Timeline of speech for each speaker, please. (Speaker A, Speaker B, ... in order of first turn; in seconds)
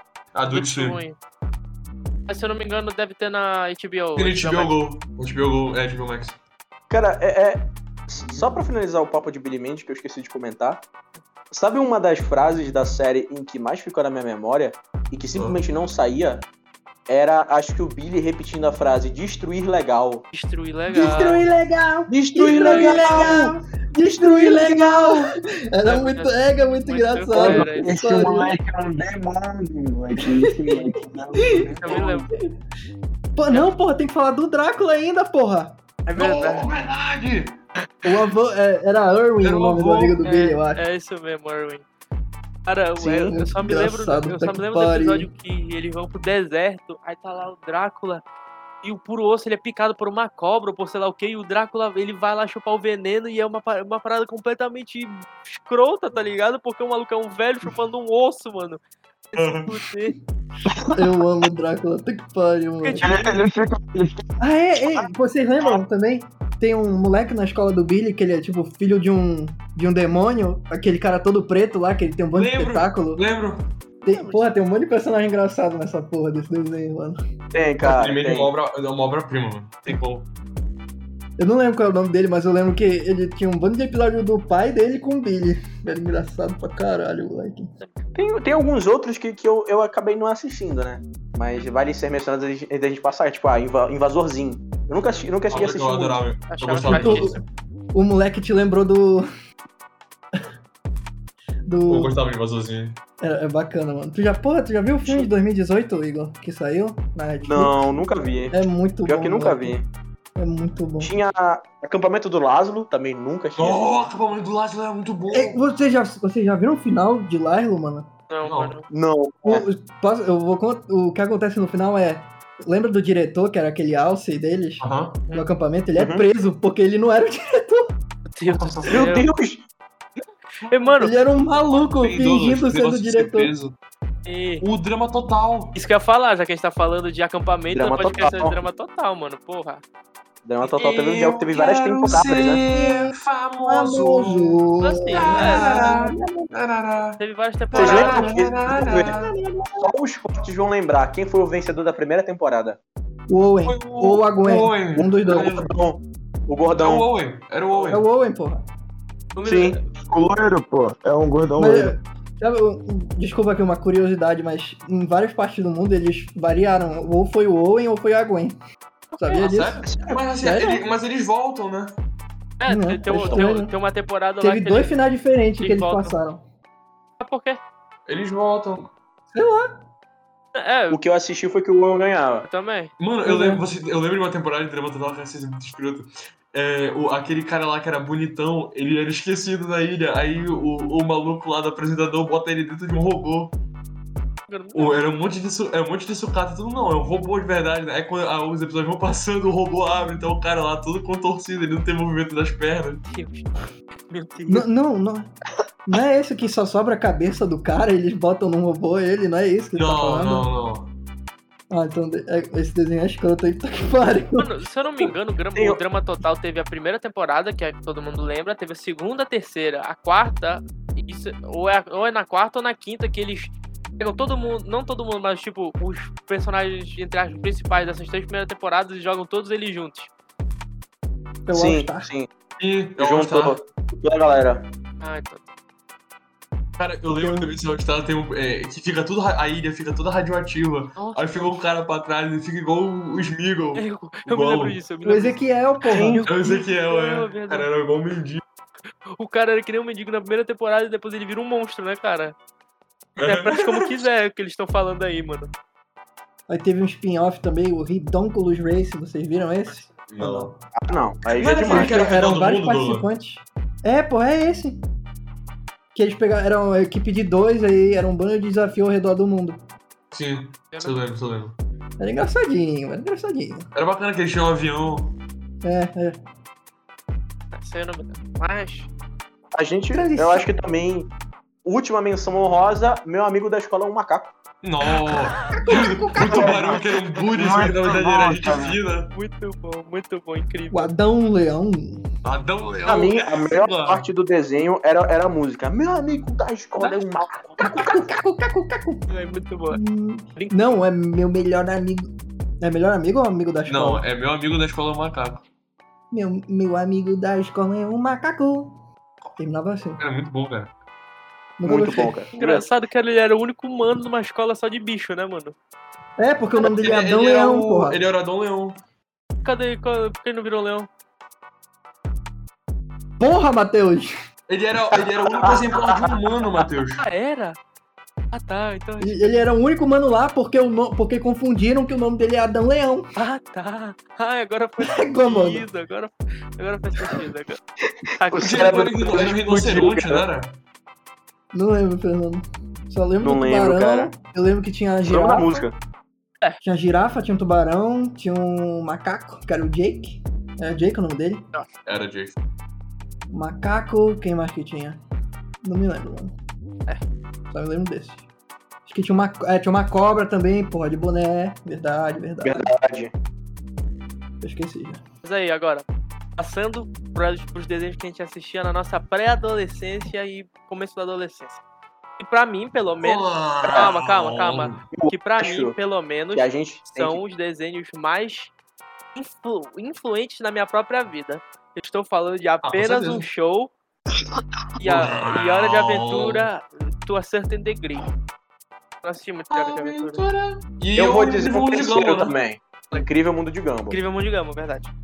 Speaker A: 0.3-1.0, 4.2-6.4, 15.3-15.6, 36.1-37.6, 39.4-40.2, 59.4-59.7, 72.3-73.7, 77.8-80.3, 95.5-97.3, 101.9-103.0, 113.5-115.6, 118.4-118.7, 124.8-125.2, 128.6-129.0, 131.7-133.8, 134.6-135.7, 140.6-147.2, 147.7-149.3, 153.7-155.7, 156.8-158.0, 169.3-171.9, 178.1-178.9, 183.0-193.5, 194.7-203.0, 209.7-210.9, 232.6-233.6, 236.8-244.8, 246.2-248.4, 253.2-254.0, 260.1-260.5, 261.4-263.1, 270.1-271.6, 273.7-275.2, 284.6-289.1, 292.2-294.1, 303.7-305.4, 310.0-310.7, 316.6-318.8, 324.5-327.0, 338.4-340.6, 351.9-352.4, 373.0-374.9, 382.6-383.2, 384.8-386.5, 389.5-392.3
Speaker B: 0.5-1.2, 2.3-4.7, 20.3-21.5, 22.4-23.4, 25.8-27.9, 31.7-32.3, 36.0-36.7, 40.2-41.8, 42.6-48.2, 48.8-58.8, 59.3-60.1, 62.8-63.4, 96.5-97.4, 118.3-118.9, 128.3-129.3, 130.6-131.1, 134.2-134.6, 135.7-139.8, 144.8-145.9, 147.2-148.3, 159.3-159.8, 172.6-175.0, 175.6-176.2, 177.2-177.6, 180.5-181.0, 182.4-182.9, 194.5-195.0, 203.0-204.7, 214.3-230.1, 235.0-235.5, 241.0-241.6, 243.7-245.4, 246.4-247.7, 249.2-252.3, 253.2-255.5, 270.7-271.0, 277.5-278.9, 289.1-290.9, 299.1-299.8, 300.4-300.6, 312.3-315.5, 319.4-320.9, 327.0-327.6, 328.3-329.4, 333.1-337.6, 338.2-339.3, 365.2-365.8, 366.4-371.6, 372.2-378.5, 379.1-383.7, 384.8-388.1, 389.0-390.2, 393.9-394.9
Speaker C: 6.9-10.8, 11.5-16.4, 17.1-20.2, 22.1-23.5, 77.5-78.5, 88.1-96.2, 107.4-109.8, 111.0-113.9, 118.9-119.7, 126.0-126.2, 128.9-129.7, 137.7-138.6, 140.4-142.6, 147.7-149.1, 149.8-152.8, 155.3-157.1, 159.4-159.8, 169.8-170.2, 180.9-182.5, 231.5-232.3, 233.0-234.7, 245.9-246.2, 260.8-262.0, 279.5-281.1, 281.6-284.3, 292.8-298.0, 311.6-312.6, 324.9-326.1, 338.2-340.2, 343.2-344.1, 345.0-345.8, 362.4-363.1, 374.9-375.8, 376.3-377.2, 390.9-394.0
Speaker D: 20.9-28.5, 30.7-31.6, 33.4-35.8, 38.0-40.8, 43.0-45.3, 60.9-63.2, 64.4-73.2, 74.0-77.2, 81.4-87.7, 96.8-97.4, 97.9-99.2, 101.7-102.1, 103.2-107.8, 108.5-109.8, 110.4-111.1, 115.3-118.1, 119.4-127.9, 131.0-133.5, 142.7-143.1, 143.6-146.5, 148.9-149.9, 153.3-155.6, 157.9-158.6, 161.6-168.6, 169.2-169.8, 170.4-170.8, 172.7-173.8, 174.4-176.4, 179.3-179.7, 183.2-183.6, 204.5-205.3, 205.9-210.5, 211.7-214.5, 231.4-232.1, 237.1-237.5, 245.0-246.6, 256.5-260.6, 261.6-264.8, 265.9-269.6, 272.0-273.7, 275.6-276.2, 279.9-280.5, 285.6-286.8, 290.7-292.1, 297.6-299.0, 299.7-302.1, 302.6-304.0, 306.1-308.7, 309.4-310.0, 311.6-312.1, 316.2-318.0, 323.2-324.1, 329.0-333.1, 334.8-335.6, 341.5-345.6, 346.6-351.4, 353.3-355.0, 355.6-356.3, 357.5-358.2, 358.9-362.7, 364.4-365.0
Speaker E: 27.3-32.1, 60.7-61.0, 63.0-64.2, 160.0-161.9, 286.2-286.8, 287.3-288.8